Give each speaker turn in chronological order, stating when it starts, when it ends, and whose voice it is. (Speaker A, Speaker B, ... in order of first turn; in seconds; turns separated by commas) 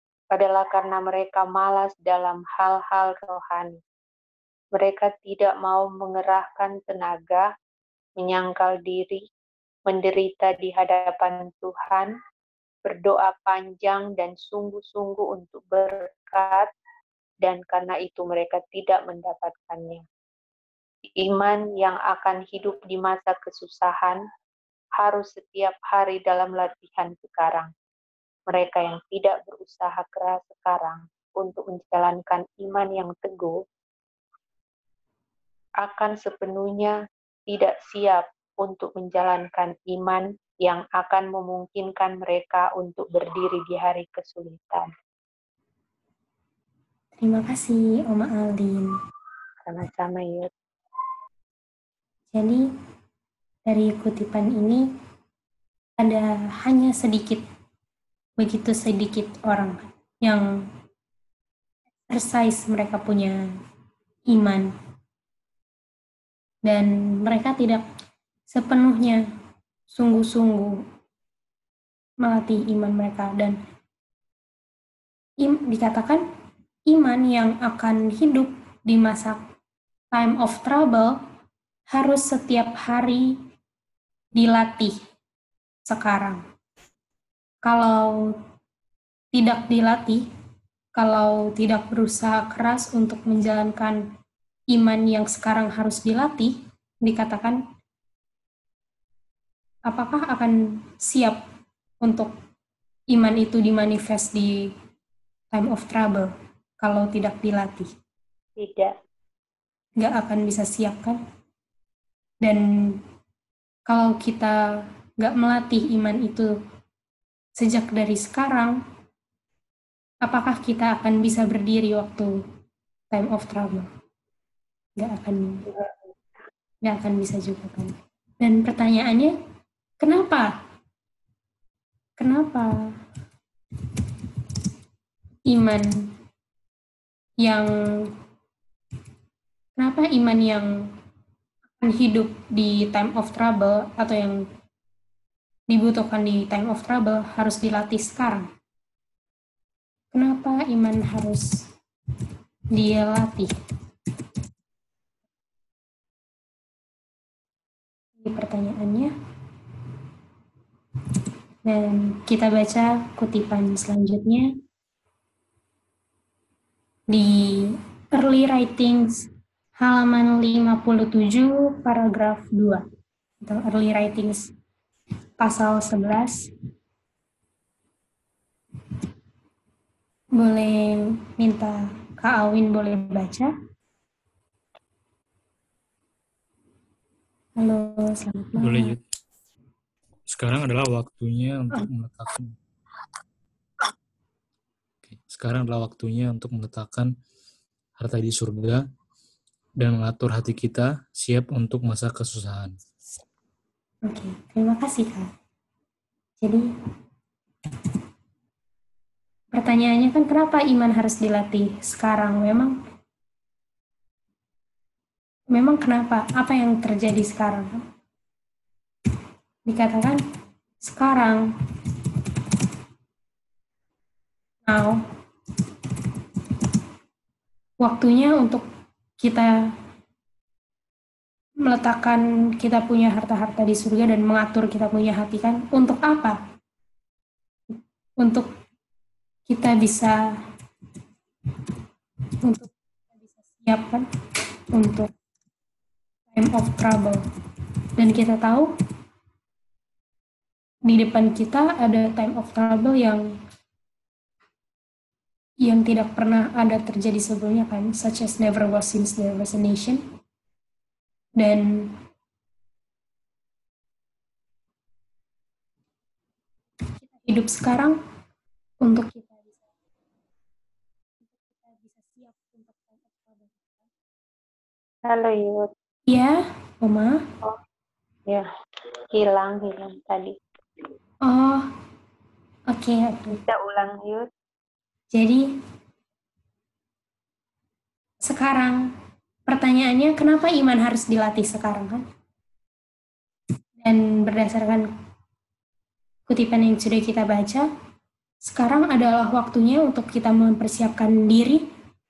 Speaker A: 0.3-3.8, Speaker A: 4.7-7.5, Speaker A: 8.2-9.2, Speaker A: 9.9-12.1, Speaker A: 12.8-16.7, Speaker A: 17.4-20.0, Speaker A: 21.2-24.2, Speaker A: 25.0-27.7, Speaker A: 28.5-33.6, Speaker A: 35.8-37.0, Speaker A: 37.5-44.9, Speaker B: 47.1-48.9, Speaker A: 49.6-50.5, Speaker B: 52.3-52.6, Speaker B: 53.7-54.8, Speaker B: 56.0-57.4, Speaker B: 58.4-60.4, Speaker B: 62.1-63.4, Speaker B: 64.3-64.7, Speaker B: 66.7-67.8, Speaker B: 68.5-69.2, Speaker B: 69.9-70.8, Speaker B: 72.2-73.6, Speaker B: 75.4-76.2, Speaker B: 76.9-79.4, Speaker B: 80.1-81.2, Speaker B: 81.9-83.3, Speaker B: 84.3-85.0, Speaker B: 85.9-86.4, Speaker B: 87.6-88.4, Speaker B: 89.3-90.2, Speaker B: 91.0-94.0, Speaker B: 94.7-97.6, Speaker B: 99.9-101.4, Speaker B: 102.0-102.3, Speaker B: 103.1-104.5, Speaker B: 105.5-107.9, Speaker A: 108.6-108.9, Speaker B: 110.0-111.2, Speaker B: 112.4-113.0, Speaker B: 113.9-114.6, Speaker B: 115.2-116.5, Speaker B: 117.6-118.8, Speaker B: 120.2-122.3, Speaker B: 123.1-123.9, Speaker B: 125.0-125.7, Speaker B: 126.8-129.3, Speaker B: 130.0-130.5, Speaker B: 132.2-132.7, Speaker B: 135.5-136.0, Speaker B: 137.4-138.1, Speaker B: 139.8-140.7, Speaker B: 141.8-144.4, Speaker B: 145.7-148.5, Speaker B: 150.1-151.5, Speaker B: 152.7-153.5, Speaker B: 158.2-159.1, Speaker B: 161.7-164.5, Speaker B: 167.1-169.3, Speaker B: 169.8-172.8, Speaker B: 173.4-174.5, Speaker B: 175.4-176.5, Speaker B: 180.4-183.5, Speaker B: 187.6-188.9, Speaker C: 188.6-189.0, Speaker C: 190.3-192.5, Speaker C: 195.1-197.1, Speaker C: 198.0-198.8, Speaker C: 199.8-202.7, Speaker B: 204.1-205.3, Speaker B: 209.5-212.7, Speaker B: 215.5-217.8, Speaker B: 219.7-220.2, Speaker B: 220.8-221.4, Speaker B: 224.7-225.0, Speaker B: 227.8-228.6, Speaker B: 229.2-229.5, Speaker B: 231.7-236.4, Speaker B: 237.7-238.5, Speaker B: 239.5-240.2, Speaker B: 242.4-244.1, Speaker B: 244.7-245.1, Speaker B: 246.3-247.2, Speaker B: 248.0-248.7, Speaker B: 250.9-253.2, Speaker B: 255.6-260.0, Speaker B: 261.4-261.9, Speaker B: 267.0-268.0, Speaker B: 268.8-269.6, Speaker B: 271.2-273.9, Speaker A: 275.0-275.7, Speaker B: 276.1-277.2, Speaker A: 279.1-280.3, Speaker B: 281.2-281.7, Speaker B: 282.7-283.4, Speaker A: 283.3-284.3, Speaker B: 285.1-285.4, Speaker B: 288.2-288.8, Speaker B: 289.5-292.0, Speaker B: 293.8-294.9, Speaker B: 296.3-297.7, Speaker B: 298.4-301.6